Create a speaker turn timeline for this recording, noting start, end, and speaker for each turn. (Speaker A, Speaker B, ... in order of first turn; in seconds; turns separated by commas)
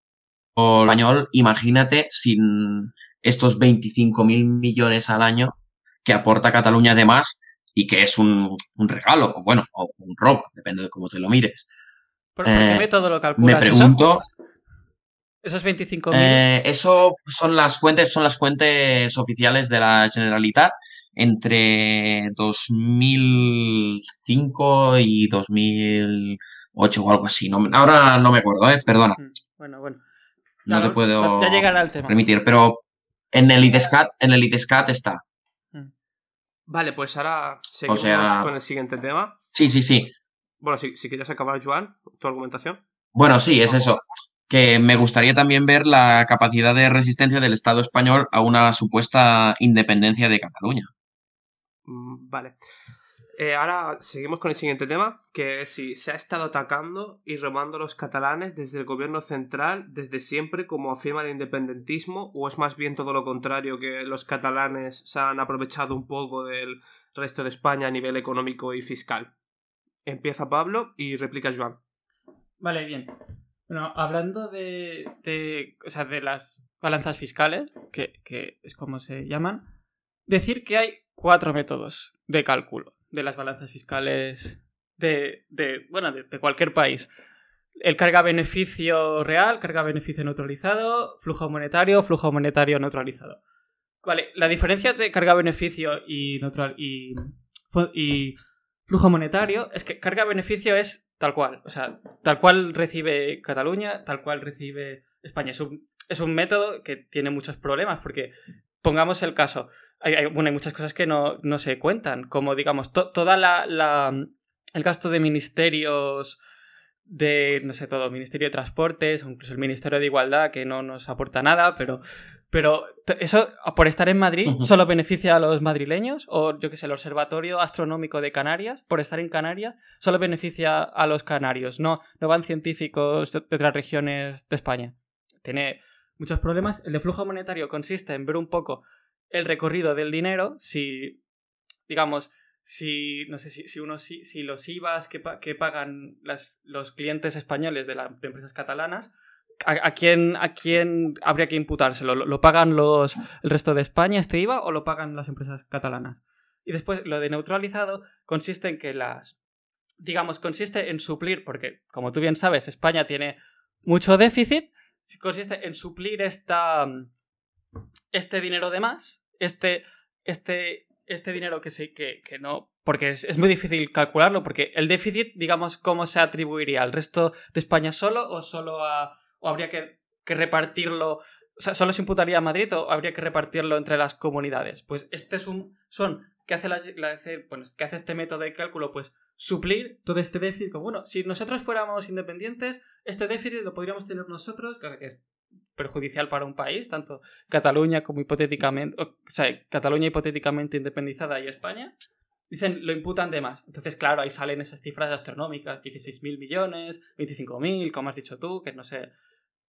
Speaker A: 0.6-11.7, Speaker B: 12.4-14.0, Speaker A: 12.4-14.2, Speaker B: 15.4-16.4, Speaker A: 16.1-29.2, Speaker B: 29.2-30.0, Speaker A: 30.6-35.2, Speaker B: 30.7-32.1, Speaker C: 36.7-39.4, Speaker A: 37.9-38.5, Speaker A: 39.5-40.1, Speaker C: 40.6-42.8, Speaker A: 43.1-50.9, Speaker C: 51.9-52.6, Speaker C: 53.4-69.3, Speaker C: 70.0-71.8, Speaker B: 72.6-73.1, Speaker B: 73.7-79.6, Speaker B: 80.3-87.1, Speaker B: 87.8-93.4, Speaker B: 94.0-98.4, Speaker B: 98.9-116.4, Speaker B: 117.1-141.2, Speaker B: 141.9-149.1, Speaker B: 149.6-159.4, Speaker B: 160.0-167.1, Speaker B: 168.1-195.2, Speaker B: 195.8-201.9, Speaker B: 202.5-209.1